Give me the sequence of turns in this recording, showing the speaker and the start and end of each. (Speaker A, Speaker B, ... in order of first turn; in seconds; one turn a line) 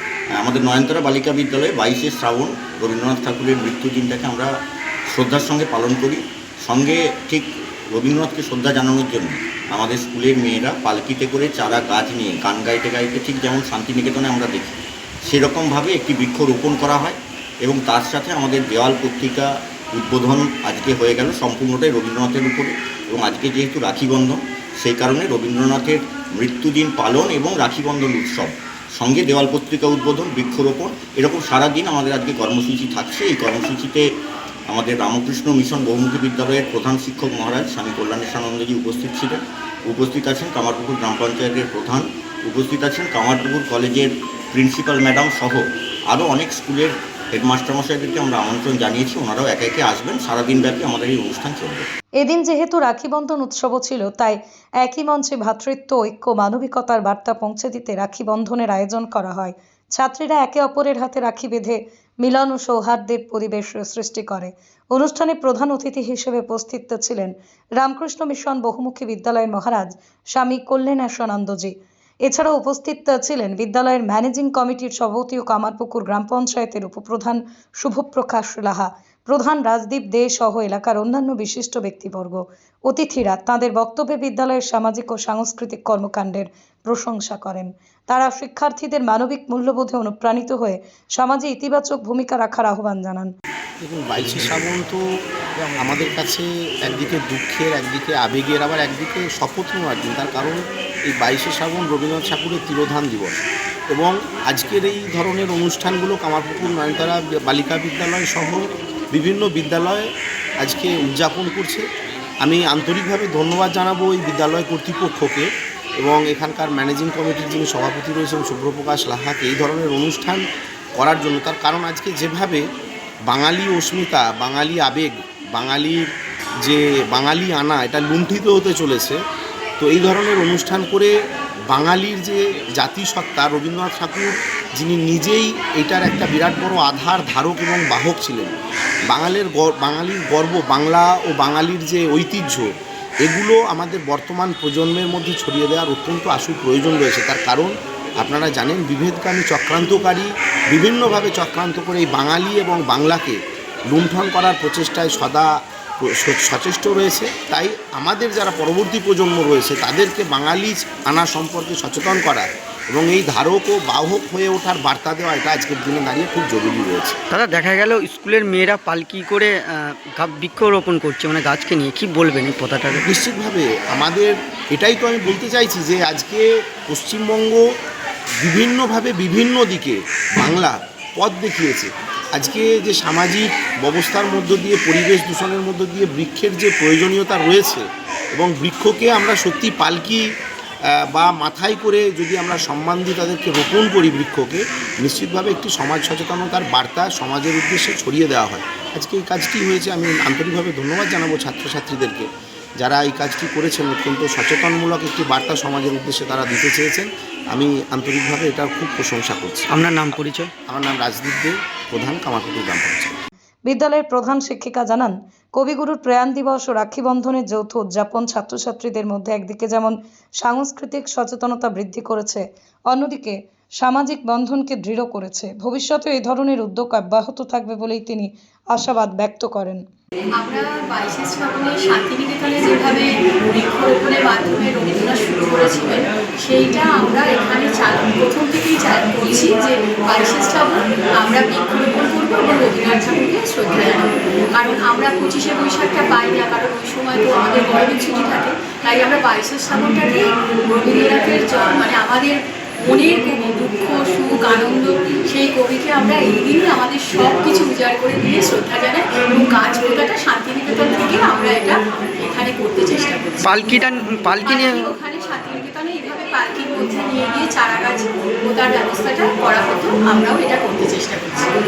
Speaker A: 0.4-4.5
Speaker A: 5.1-34.1
Speaker A: 34.7-51.9
Speaker B: 52.2-93.3
Speaker C: 93.8-95.0
Speaker C: 95.8-110.1
Speaker C: 110.6-111.8
Speaker C: 112.4-120.4
Speaker C: 121.0-122.6
Speaker C: 123.3-126.1
Speaker C: 126.6-129.2
Speaker C: 129.8-131.1
Speaker C: 131.7-138.5
Speaker C: 139.1-155.5
Speaker C: 156.0-167.2
Speaker D: 167.3-173.0
Speaker C: 173.0-177.6
Speaker C: 178.4-190.2
Speaker C: 190.9-202.3
Speaker C: 202.8-209.7
Speaker D: 209.7-210.5
Speaker C: 210.7-213.2
Speaker B: 213.7-229.8
Speaker E: 230.4-263.8
Speaker D: 263.4-264.9
Speaker E: 264.4-271.5